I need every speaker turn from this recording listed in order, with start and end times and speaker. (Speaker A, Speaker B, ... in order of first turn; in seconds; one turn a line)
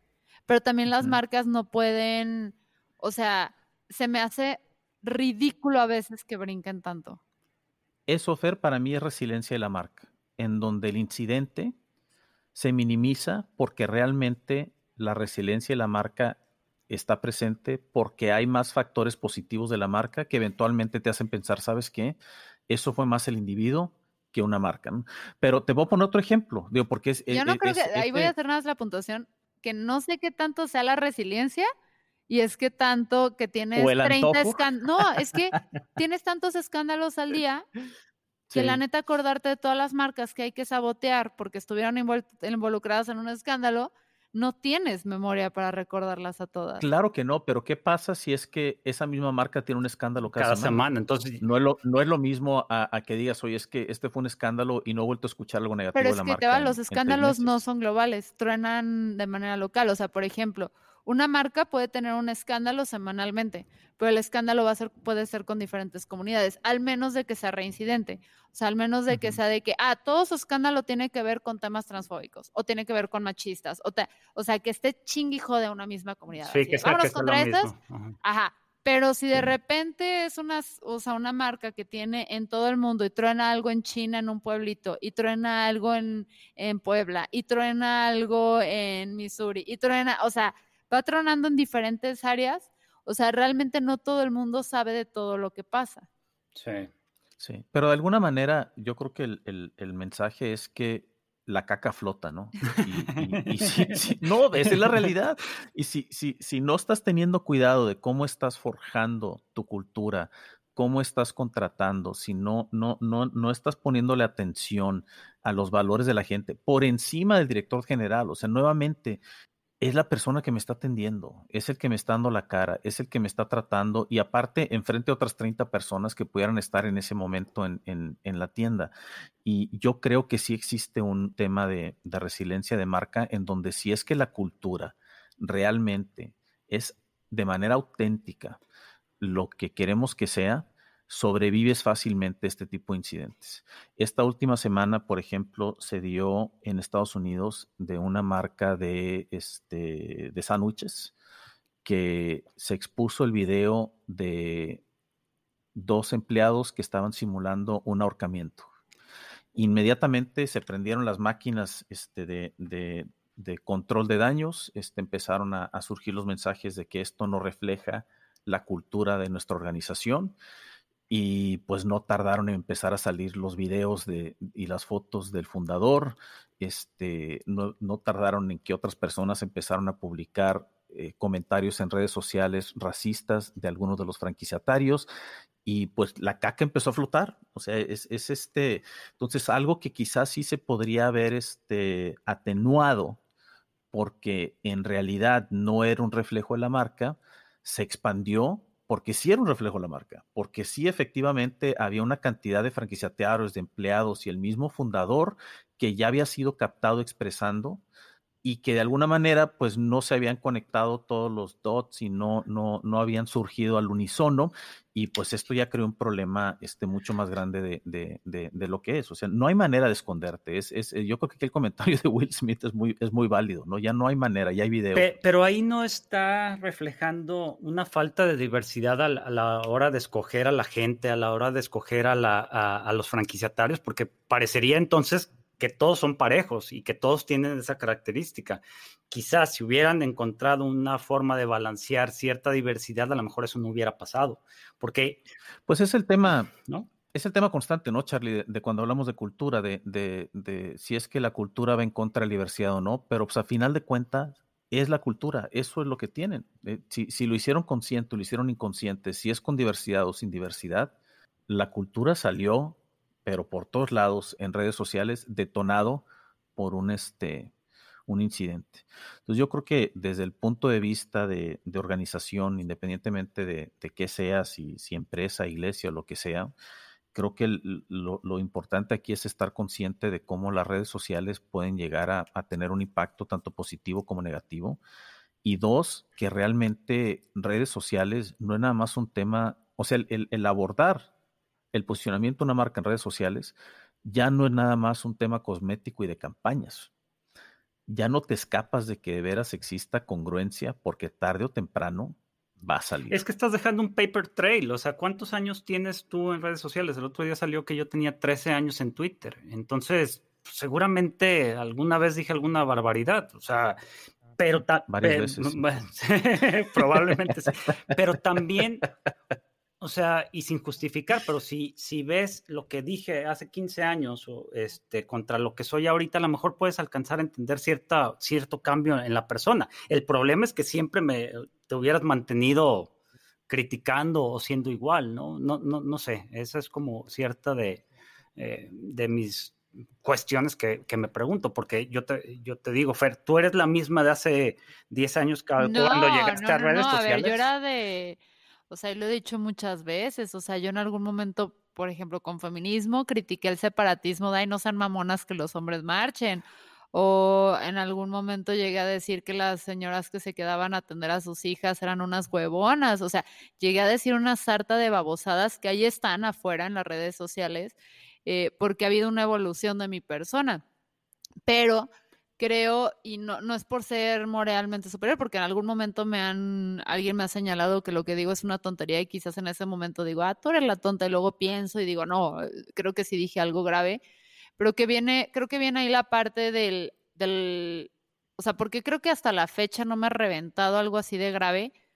Speaker A: 0.5-7.2
Speaker B: 8.1-11.7
Speaker B: 12.5-16.4
Speaker B: 16.9-22.2
Speaker B: 22.7-28.3
Speaker A: 27.3-31.7
Speaker A: 32.3-37.6
Speaker B: 33.8-34.7
Speaker B: 38.5-38.8
Speaker A: 38.5-46.8
Speaker B: 46.8-50.8
Speaker C: 50.4-51.4
Speaker B: 51.4-57.5
Speaker A: 55.9-77.7
Speaker C: 76.5-78.2
Speaker A: 78.2-96.0
Speaker C: 96.5-96.9
Speaker B: 97.4-119.2
Speaker C: 102.7-104.0
Speaker B: 119.8-128.9
Speaker B: 129.4-138.6
Speaker B: 139.2-151.1
Speaker B: 151.8-154.8
Speaker B: 155.7-158.7
Speaker B: 159.6-170.3
Speaker B: 171.1-185.1
Speaker B: 185.6-193.2
Speaker B: 193.9-207.8
Speaker B: 208.4-225.1
Speaker C: 224.9-245.2
Speaker B: 245.7-246.5
Speaker B: 247.1-260.9
Speaker B: 261.5-266.0
Speaker B: 266.6-267.5
Speaker B: 268.1-276.5
Speaker B: 277.1-284.8
Speaker B: 285.4-291.1
Speaker B: 291.7-296.9
Speaker B: 297.9-303.2
Speaker C: 303.1-313.8
Speaker C: 314.4-318.9
Speaker B: 314.9-315.6
Speaker C: 319.8-332.9
Speaker C: 333.5-337.8
Speaker C: 338.4-347.4
Speaker A: 345.6-348.2
Speaker A: 348.7-370.6
Speaker A: 371.5-384.0
Speaker A: 384.6-391.7